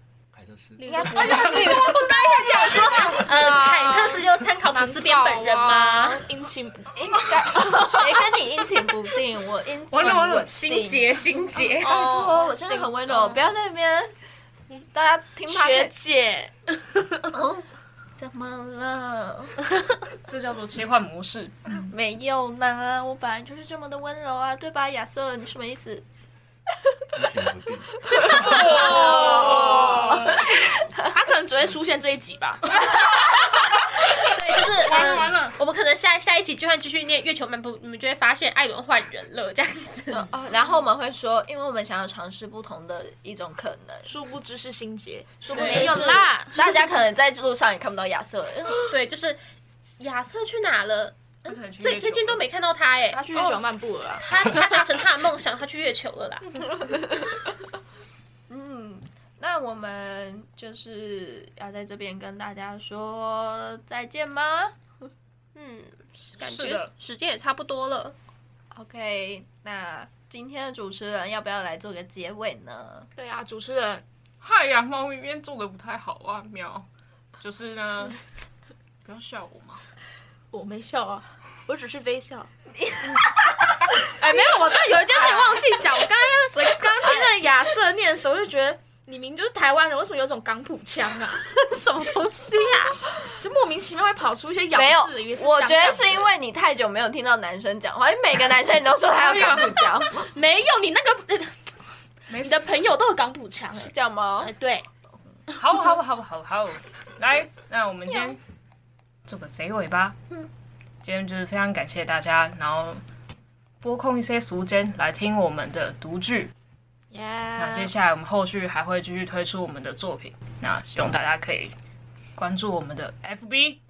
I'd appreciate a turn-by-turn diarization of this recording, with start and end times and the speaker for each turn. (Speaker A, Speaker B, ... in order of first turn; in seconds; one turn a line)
Speaker A: 0.3-1.1
Speaker B: 0.8-8.2
Speaker C: 0.9-6.2
Speaker D: 1.0-1.9
Speaker E: 1.2-1.9
Speaker D: 2.5-3.2
Speaker E: 2.6-3.2
Speaker E: 7.0-11.2
Speaker C: 9.9-12.0
Speaker D: 10.0-10.2
Speaker B: 11.8-13.4
Speaker E: 11.8-14.1
Speaker E: 14.9-15.9
Speaker B: 15.5-17.2
Speaker C: 17.3-17.6
Speaker E: 18.2-19.6
Speaker D: 20.3-21.8
Speaker E: 21.7-26.0
Speaker A: 27.1-28.6
Speaker E: 28.1-30.4
Speaker D: 28.4-30.4
Speaker B: 28.6-30.2
Speaker B: 31.1-33.0
Speaker C: 34.2-40.3
Speaker D: 34.7-35.6
Speaker E: 40.1-44.1
Speaker B: 44.0-46.7
Speaker E: 45.4-48.9
Speaker C: 45.5-46.2
Speaker C: 48.9-49.4
Speaker C: 50.0-53.6
Speaker D: 51.5-52.4
Speaker B: 53.1-54.3
Speaker C: 54.2-56.7
Speaker E: 56.8-57.3
Speaker E: 58.5-64.8
Speaker C: 65.5-68.2
Speaker D: 66.3-66.9
Speaker E: 68.7-73.1
Speaker B: 73.2-74.0
Speaker D: 74.4-76.9
Speaker D: 77.4-78.2
Speaker D: 79.0-79.8
Speaker B: 80.5-83.3
Speaker B: 83.9-91.4
Speaker E: 87.0-87.3
Speaker C: 91.5-93.0
Speaker B: 93.4-96.3
Speaker E: 94.7-100.3
Speaker D: 99.2-99.7
Speaker B: 100.2-101.7
Speaker D: 102.3-102.7
Speaker B: 102.4-103.9
Speaker E: 103.8-104.5
Speaker B: 104.4-104.9
Speaker D: 105.5-108.4
Speaker D: 109.3-110.2
Speaker D: 111.0-113.0
Speaker D: 113.8-116.5
Speaker B: 117.1-117.9
Speaker D: 117.6-121.7
Speaker D: 122.4-123.8